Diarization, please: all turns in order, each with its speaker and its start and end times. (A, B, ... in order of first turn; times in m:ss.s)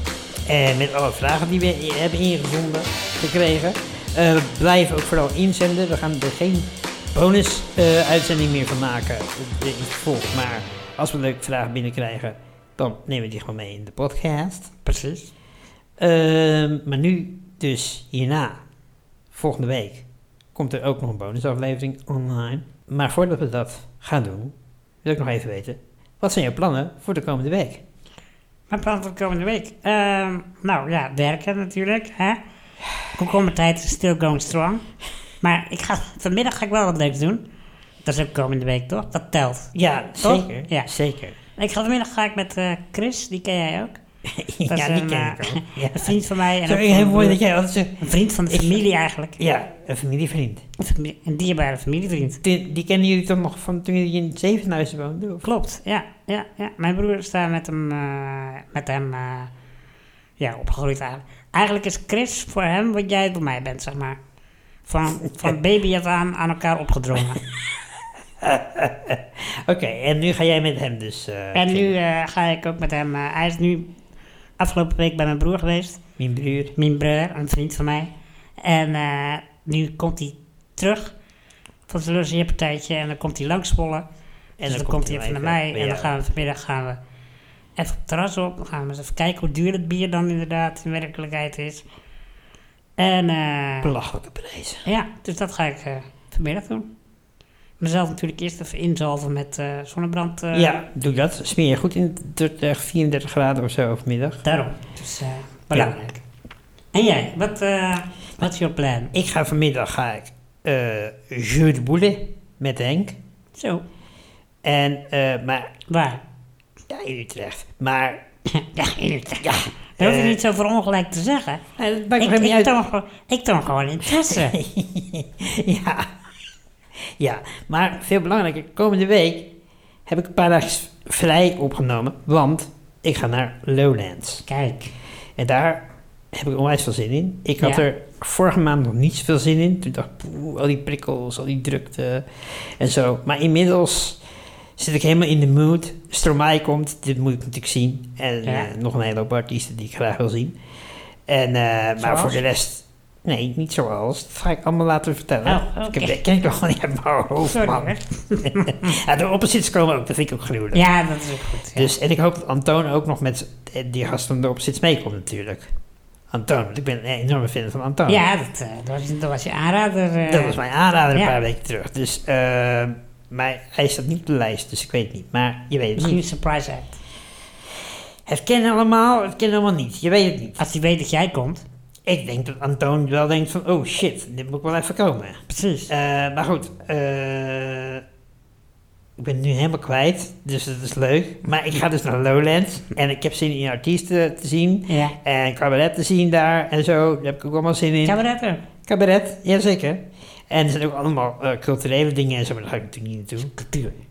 0:00.4-0:14.7 A
0:14.8-0:15.3 B
0:16.0-0:18.6 A
0:19.3-0:27.8 A
0:28.7-0:32.4 B
0:33.1-0:34.8 B
0:35.4-0:37.4 B
0:38.0-0:39.7 B
0:39.7-0:41.4 A
0:40.2-0:40.9 B
0:41.6-0:44.0 B
0:44.3-0:48.8 A
0:44.7-0:47.4 B
0:48.0-0:49.4 B
0:49.4-0:50.6 A
0:50.8-0:52.4 B
0:52.4-0:55.4 A
0:55.4-0:59.5 B
1:00.4-1:04.2 B
1:04.8-1:07.4 B
1:07.4-1:07.9 A
1:08.4-1:11.9 A
1:11.5-1:13.9 B
1:14.6-1:16.0 B
1:16.2-1:16.7 A
1:16.8-1:21.1 B
1:21.9-1:24.0 B
1:24.6-1:26.1 A
1:24.6-1:27.0 B
1:27.8-1:31.8 B
1:33.0-1:33.9 B
1:33.8-1:34.8 A
1:34.8-1:36.9 B
1:37.8-1:40.8 B
1:40.5-1:44.4 A
1:44.4-1:46.2 B
1:46.9-1:49.1 B
1:49.1-1:53.2 A
1:53.6-1:53.8 B
1:54.6-1:55.7 A
1:55.9-1:56.2 B
1:56.9-1:58.2 A
1:58.5-2:01.6 B
1:59.4-2:00.4 A
2:01.8-2:02.7 A
2:02.2-2:04.6 B
2:04.2-2:06.1 A
2:07.2-2:09.5 A
2:10.1-2:14.4 A
2:14.4-2:14.9 B
2:15.4-2:24.2 A
2:24.8-2:30.6 A
2:28.4-2:28.7 B
2:31.3-2:40.8 A
2:32.0-2:32.4 B
2:35.4-2:36.1 B
2:37.5-2:39.0 B
2:40.7-2:41.9 B
2:41.7-2:45.7 A
2:46.3-2:48.2 A
2:48.1-2:50.6 B
2:50.3-2:56.2 A
2:56.0-2:57.0 B
2:58.2-3:00.6 A
3:00.6-3:01.6 B
3:02.0-3:08.0 A
3:05.5-3:05.9 B
3:09.2-3:18.2 A
3:14.9-3:15.2 B
3:18.0-3:18.6 B
3:18.9-3:23.5 A
3:23.5-3:24.0 B